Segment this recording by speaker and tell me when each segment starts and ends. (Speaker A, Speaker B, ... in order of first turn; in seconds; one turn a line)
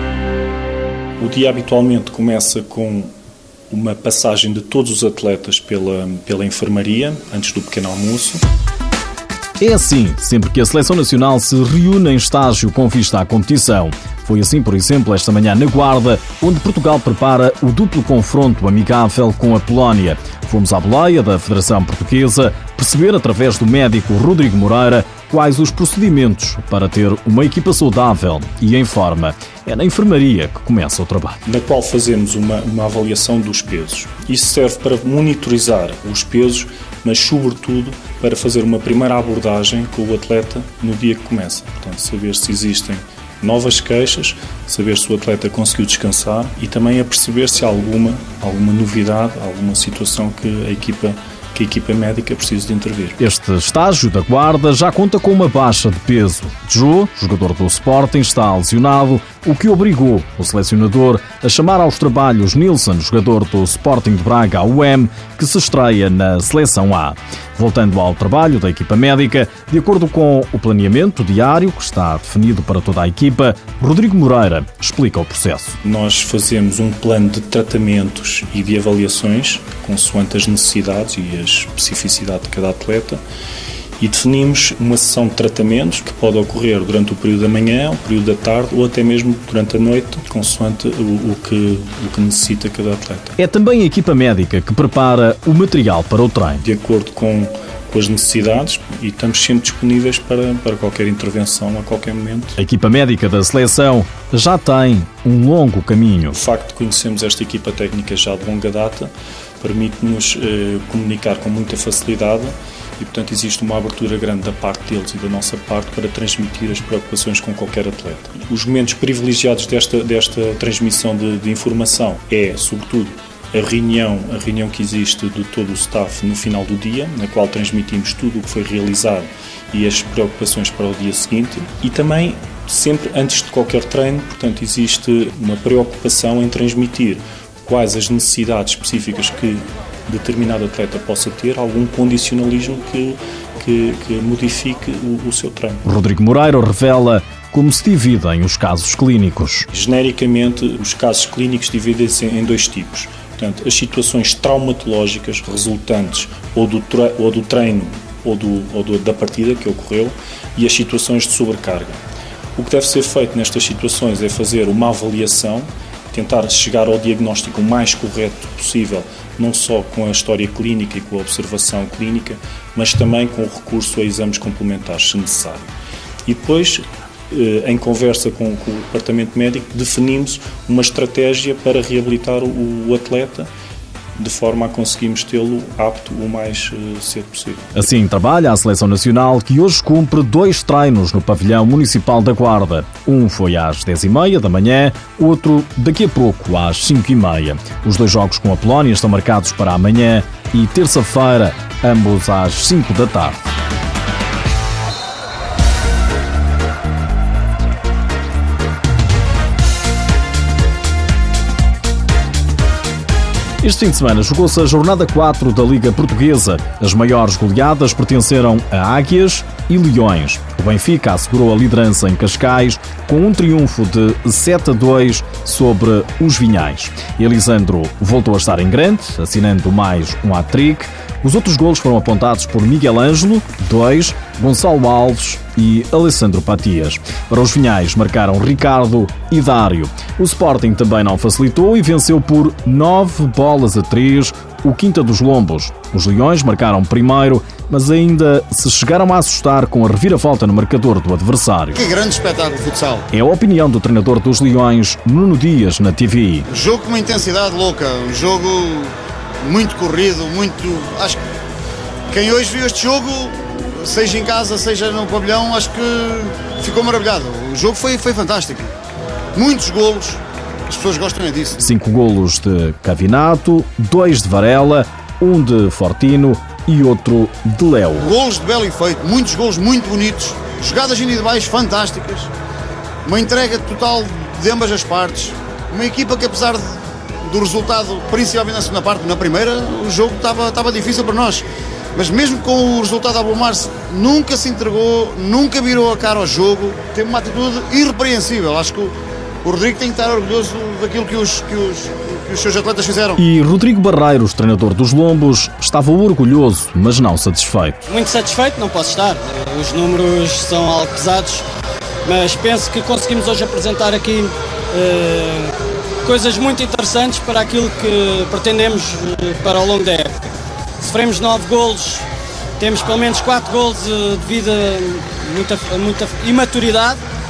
Speaker A: 1.2-3.1
Speaker A: 3.7-8.4
Speaker B: 9.6-31.4
Speaker A: 31.5-53.2
Speaker B: 53.2-75.8
Speaker A: 75.8-83.2
Speaker A: 84.0-93.3
Speaker B: 93.4-96.6
Speaker A: 96.6-102.6
Speaker B: 102.6-106.4
Speaker A: 106.3-109.1
Speaker A: 109.6-145.8
Speaker B: 145.8-149.7
Speaker A: 149.7-162.0
Speaker A: 162.6-175.7
Speaker A: 176.3-183.5
Speaker A: 184.2-187.7
Speaker B: 187.8-203.5
Speaker B: 213.6-251.8
Speaker C: 251.7-253.1
Speaker B: 253.1-256.5
Speaker C: 256.5-261.2
Speaker C: 262.1-268.7
Speaker C: 269.4-271.6
Speaker B: 271.6-278.1
Speaker C: 278.0-282.3
Speaker C: 283.1-303.2
Speaker B: 303.2-307.8
Speaker D: 307.9-311.5
Speaker D: 312.0-322.1
Speaker D: 322.6-327.0